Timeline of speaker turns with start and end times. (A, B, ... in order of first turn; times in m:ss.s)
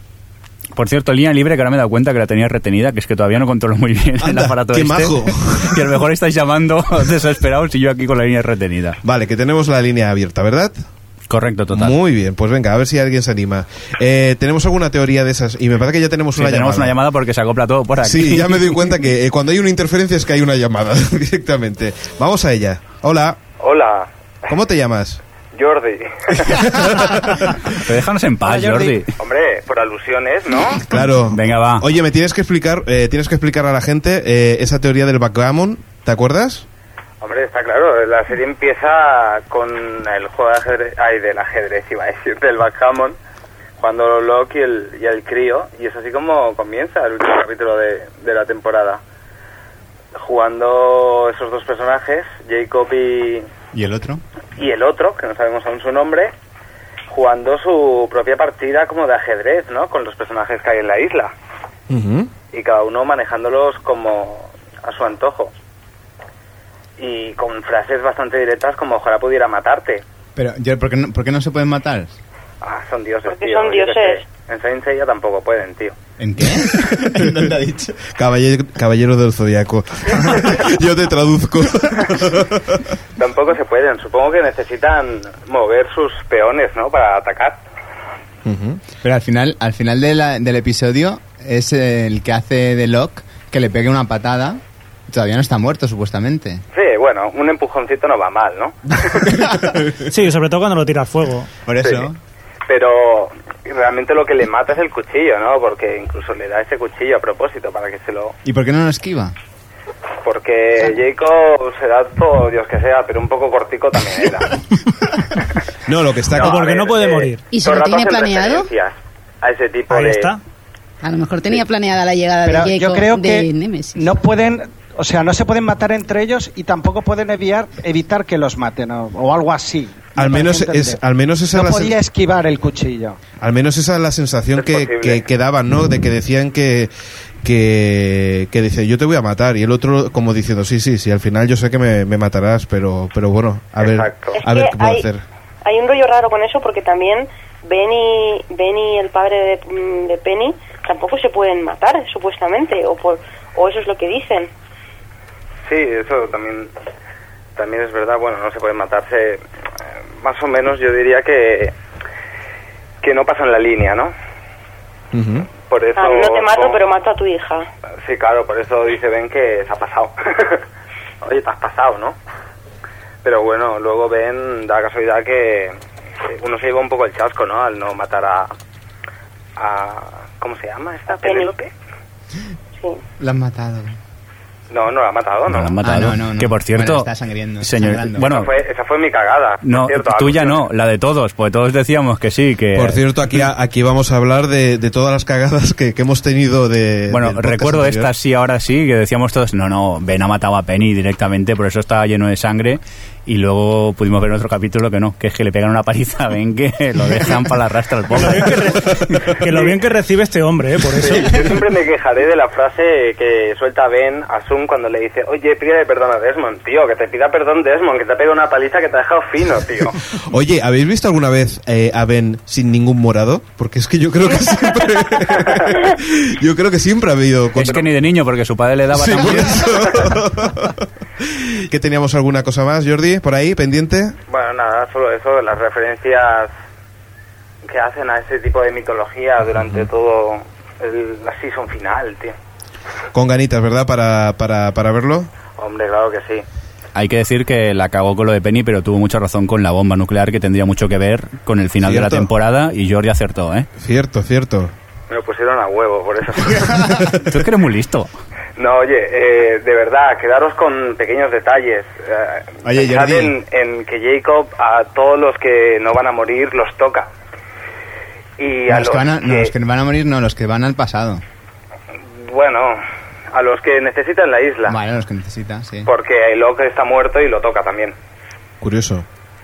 0:00.8-0:09.0 A
0:04.2-0:05.9 B
0:09.0-0:10.7 B
0:11.3-0:12.0 A
0:11.7-0:17.0 B
0:16.3-0:18.6 A
0:18.0-0:23.4 B
0:23.6-0:24.1 C
0:24.5-0:25.2 B
0:25.5-0:26.5 C
0:26.5-0:27.5 B
0:27.8-0:29.1 A
0:28.4-0:29.0 D
0:29.2-0:30.8 C
0:30.9-0:36.6 B
0:31.3-0:31.8 A
0:37.2-0:43.2 C
0:43.8-0:49.0 C
0:50.1-0:53.4 C
0:53.7-0:54.2 E
0:54.6-0:56.3 C
0:57.1-1:01.3 C
1:01.9-1:02.3 B
1:02.5-1:05.5 C
1:07.0-1:10.0 C
1:10.4-1:12.2 E
1:12.6-1:15.9 C
1:13.3-1:14.2 F
1:16.2-1:18.0 E
1:18.1-1:22.8 B
1:23.2-1:27.6 C
1:28.4-1:28.8 B
1:29.0-1:36.6 E
1:36.7-1:39.2 C
1:40.1-1:41.5 G
1:41.6-1:42.2 E
1:41.8-1:42.1 C
1:42.7-1:48.4 C
1:48.4-1:49.3 E
1:50.2-1:54.5 C
1:55.8-1:56.6 B
1:56.3-2:00.3 C
1:56.4-1:57.4 G
1:57.5-1:58.7 H
1:59.9-2:00.4 G
2:01.0-2:04.2 H
2:02.4-2:11.0 D
2:10.2-2:12.0 B
2:11.5-2:13.2 D
2:13.4-2:16.9 B
2:14.6-2:15.2 C
2:17.4-2:25.2 B
2:23.8-2:24.4 C
2:24.3-2:25.0 F
2:25.6-2:34.5 F
2:35.6-2:36.7 C
2:37.6-2:39.4 C
2:40.2-2:41.7 C
2:43.0-2:44.1 C
2:45.1-2:45.5 B
2:45.6-2:46.8 C
2:46.0-2:47.7 F
2:48.0-2:50.6 C
2:51.2-2:52.2 C
2:53.2-2:58.5 C
2:59.6-3:01.7 C
3:01.1-3:01.5 F
3:03.2-3:04.0 E
3:04.7-3:05.8 C
3:05.4-3:07.1 A
3:05.8-3:08.3 E
3:07.6-3:08.5 A
3:08.2-3:10.7 C
3:09.6-3:13.0 A
3:12.7-3:18.1 B
3:17.1-3:28.8 A
3:28.2-3:28.8 G
3:29.4-3:31.6 G
3:31.0-3:40.0 C
3:40.3-3:47.8 B
3:47.6-3:49.8 A
3:48.9-3:54.1 B
3:54.3-3:56.5 C
3:57.6-4:02.3 C
4:03.1-4:05.3 B
4:05.6-4:06.4 C
4:06.9-4:13.7 A
4:11.8-4:12.3 B
4:13.8-4:14.7 B
4:15.1-4:16.7 C
4:17.3-4:18.1 A
4:18.6-4:27.1 C
4:22.6-4:23.4 E
4:28.4-4:29.5 C
4:28.7-4:31.2 E
4:32.1-4:32.8 C
4:33.3-4:34.7 C
4:34.7-4:35.9 E
4:35.8-4:38.0 C
4:38.6-4:39.0 B